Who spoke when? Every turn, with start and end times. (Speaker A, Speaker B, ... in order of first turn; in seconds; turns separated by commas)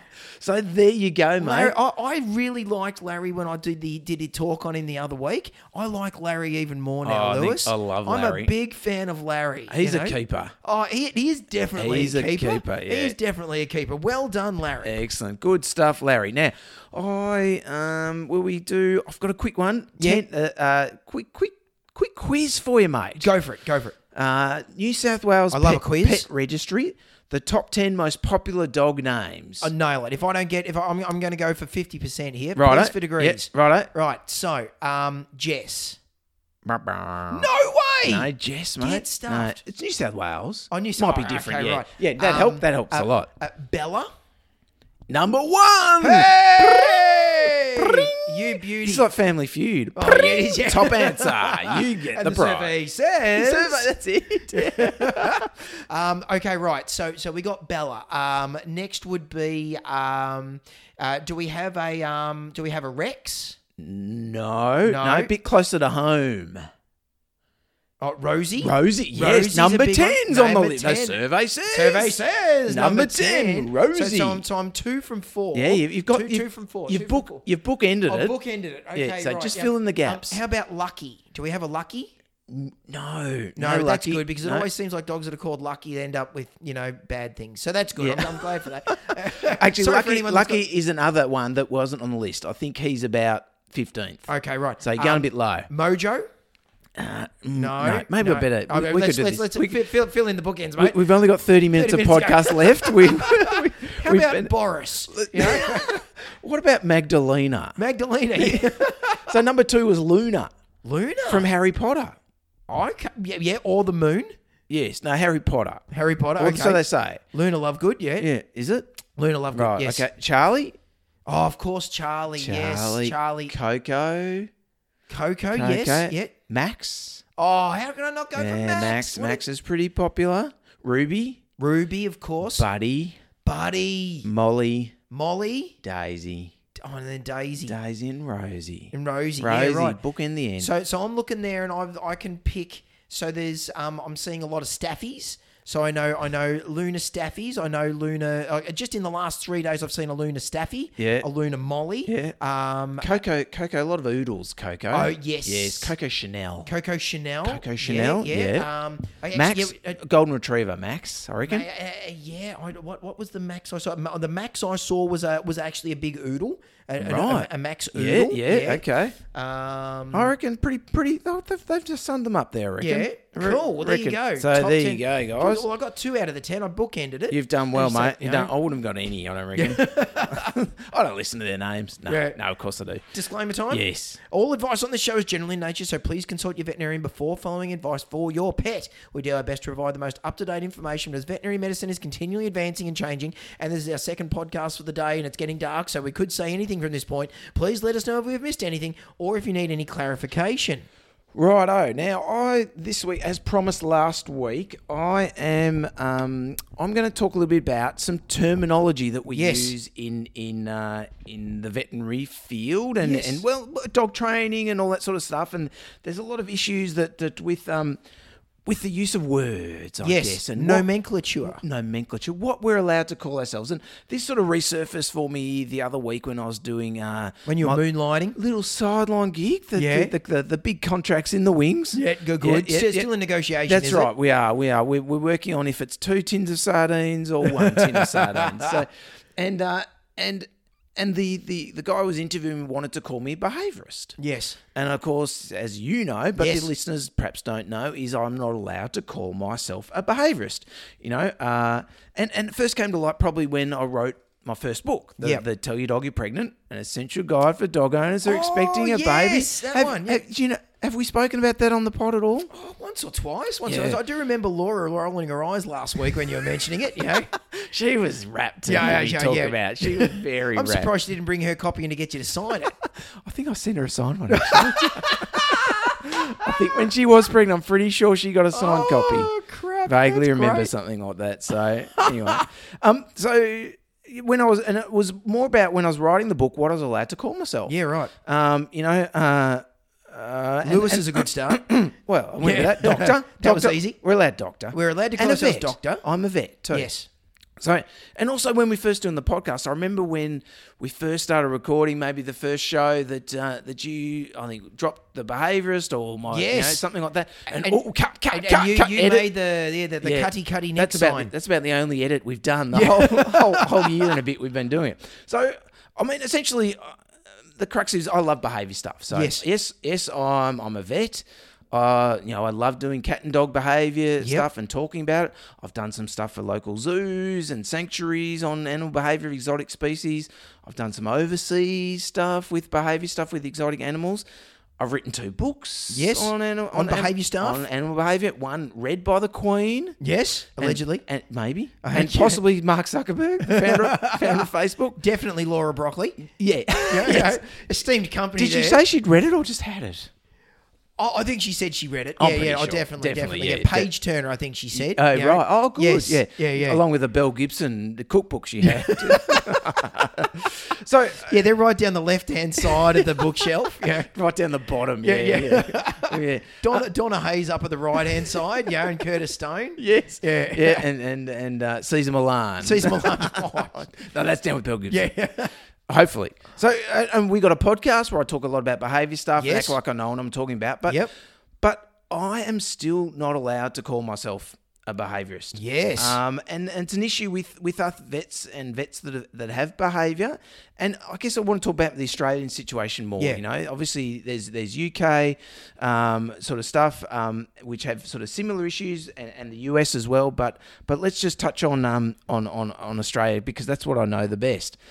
Speaker A: 0.4-1.8, Speaker B: 1.4-14.9, Speaker A: 7.0-8.5, Speaker A: 9.7-10.5, Speaker A: 11.8-13.2, Speaker A: 14.8-23.3, Speaker B: 20.0-20.2, Speaker B: 23.2-23.9, Speaker A: 24.1-29.7, Speaker B: 25.5-26.3, Speaker B: 29.6-36.0, Speaker A: 32.5-33.9, Speaker A: 36.6-37.5, Speaker B: 37.3-39.6, Speaker A: 38.1-43.3, Speaker B: 40.7-44.1, Speaker A: 45.1-52.7, Speaker B: 46.0-49.1, Speaker B: 49.9-53.9, Speaker A: 53.3-55.5, Speaker B: 54.5-63.6, Speaker A: 63.8-66.7, Speaker B: 64.8-65.3, Speaker B: 68.0-77.4, Speaker A: 68.6-74.4, Speaker A: 75.5-78.3, Speaker B: 78.1-82.1, Speaker A: 78.9-80.4, Speaker A: 82.5-84.7, Speaker B: 83.5-90.6, Speaker A: 88.0-94.3, Speaker B: 94.3-96.3, Speaker A: 94.8-95.7, Speaker A: 97.0-99.9, Speaker B: 97.5-101.1, Speaker A: 100.8-104.5, Speaker B: 101.7-105.9, Speaker A: 105.1-107.8, Speaker B: 107.8-109.3, Speaker A: 108.3-110.5, Speaker B: 110.8-111.5, Speaker A: 111.3-112.2, Speaker B: 112.7-114.3, Speaker A: 114.7-115.8, Speaker B: 115.9-118.3, Speaker A: 116.4-117.2, Speaker A: 118.2-119.0, Speaker B: 119.2-120.0, Speaker A: 119.5-120.8, Speaker B: 121.2-123.5, Speaker A: 122.4-124.5, Speaker B: 125.1-126.3, Speaker A: 125.5-127.2, Speaker B: 127.4-129.4, Speaker A: 128.3-131.4, Speaker B: 131.6-132.7, Speaker A: 132.6-133.2, Speaker B: 133.4-134.3, Speaker A: 134.2-134.9, Speaker B: 135.1-135.8, Speaker A: 135.8-136.5, Speaker B: 136.8-137.7, Speaker A: 137.7-140.7, Speaker B: 138.9-140.0, Speaker B: 140.6-153.2, Speaker A: 151.0-151.3, Speaker A: 152.1-152.3, Speaker A: 153.0-156.7, Speaker B: 154.9-155.9, Speaker B: 156.7-160.0, Speaker A: 157.4-158.7, Speaker A: 159.3-161.7, Speaker B: 161.4-170.3, Speaker A: 167.0-169.2, Speaker A: 170.1-175.7, Speaker B: 172.8-178.5, Speaker A: 177.3-183.1, Speaker B: 179.5-180.5, Speaker B: 182.1-182.4, Speaker B: 183.1-200.9, Speaker A: 183.7-184.2, Speaker A: 201.3-218.0, Speaker B: 209.3-209.7, Speaker B: 213.0-213.4, Speaker A: 218.7-220.9, Speaker B: 220.0-221.6, Speaker A: 221.4-227.8, Speaker B: 227.4-228.3, Speaker A: 228.3-233.1, Speaker B: 229.7-230.1, Speaker B: 231.9-234.1, Speaker A: 233.7-244.2, Speaker B: 237.4-238.8, Speaker B: 244.2-244.6, Speaker A: 244.7-262.5, Speaker B: 246.4-246.7, Speaker B: 255.2-255.4, Speaker B: 258.2-260.2, Speaker B: 262.5-267.3, Speaker A: 263.6-264.0, Speaker A: 267.3-270.9, Speaker B: 268.6-272.7, Speaker A: 273.0-279.3, Speaker B: 274.3-276.8, Speaker B: 278.5-280.7, Speaker A: 279.9-296.9, Speaker B: 281.9-282.4, Speaker B: 287.7-288.1, Speaker B: 290.6-291.6, Speaker B: 292.4-294.0, Speaker B: 294.7-296.0, Speaker B: 296.7-297.1, Speaker A: 297.6-309.3, Speaker B: 306.3-306.8, Speaker B: 307.5-311.3, Speaker A: 310.0-317.0, Speaker B: 312.7-314.1, Speaker A: 317.5-334.2, Speaker B: 319.1-319.4, Speaker B: 324.2-324.5, Speaker A: 334.8-340.0, Speaker B: 335.9-337.6, Speaker B: 340.0-341.0, Speaker A: 340.6-345.0, Speaker B: 341.8-342.4, Speaker B: 343.4-346.3, Speaker A: 346.4-347.4, Speaker B: 346.8-348.8, Speaker A: 348.4-350.1, Speaker B: 351.0-356.8, Speaker A: 352.2-353.9, Speaker A: 354.7-361.4, Speaker B: 358.6-359.6, Speaker B: 361.2-364.1, Speaker A: 362.6-366.8, Speaker B: 365.0-370.9, Speaker A: 369.8-375.1, Speaker B: 372.6-373.9, Speaker B: 374.9-375.5, Speaker A: 375.9-381.1, Speaker B: 379.4-379.8, Speaker B: 380.9-381.1, Speaker A: 381.6-404.8, Speaker B: 385.5-386.2